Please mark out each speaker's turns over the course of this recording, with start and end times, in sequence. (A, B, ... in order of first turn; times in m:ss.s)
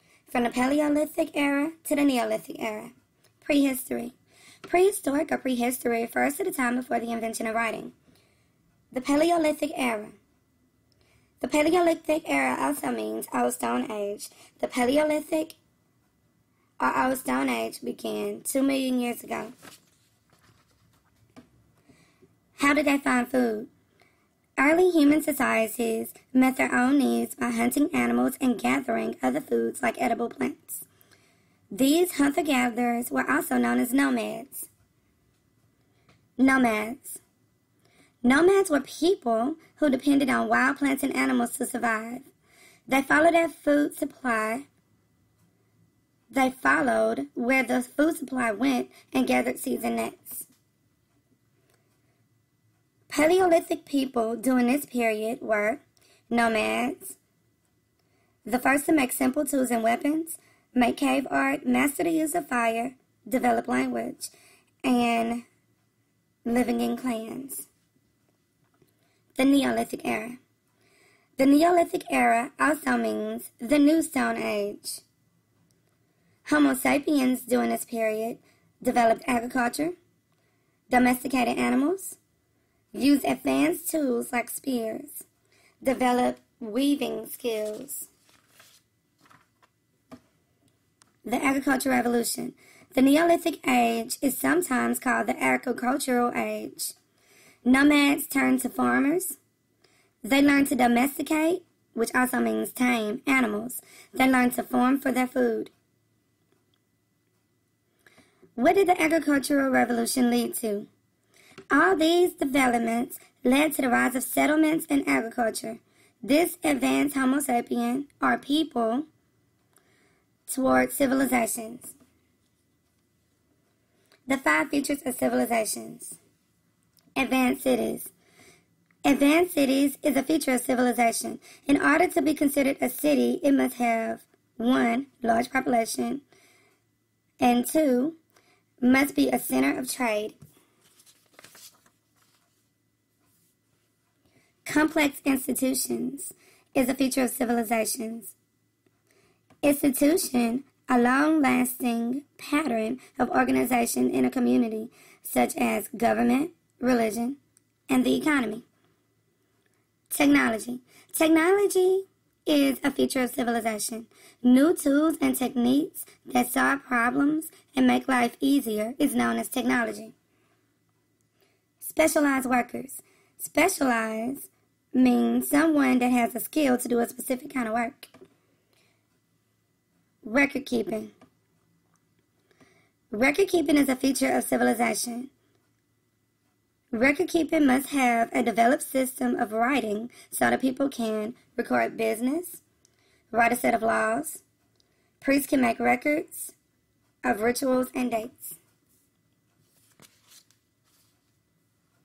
0:00.3-0:07.9 A
0:08.9-0:10.2 A
0:11.4-0:15.6 A
0:16.8-0:19.5 A
0:22.6-0:23.7 A
0:24.6-0:30.8 A
0:31.7-0:34.7 A
0:36.4-0:37.2 A
0:38.2-0:42.3 A
0:42.9-0:44.6 A
0:46.3-0:50.5 A
0:53.1-0:57.2 A
0:58.4-1:04.3 A
1:04.8-1:05.4 A
1:06.4-1:07.7 A
1:09.3-1:10.4 A
1:11.4-1:15.0 A
1:16.4-1:20.0 A
1:20.9-1:22.2 A
1:22.9-1:25.3 A
1:25.8-1:28.1 A
1:31.2-1:37.0 A
1:37.6-1:39.4 A
1:40.2-1:45.7 A
1:48.6-1:50.9 A
1:51.7-1:59.1 A
2:00.5-2:01.9 A
2:04.3-2:06.2 A
2:07.2-2:08.1 A
2:09.0-2:16.2 A
2:17.4-2:18.2 A
2:18.8-2:20.4 A
2:24.6-2:28.4 A
2:29.6-2:38.6 A
2:40.1-2:50.1 A
2:51.8-2:58.1 A
3:00.2-3:01.1 A
3:03.1-3:05.3 A
3:06.9-3:12.6 A
3:13.3-3:14.4 A
3:15.2-3:16.5 A
3:17.2-3:18.6 A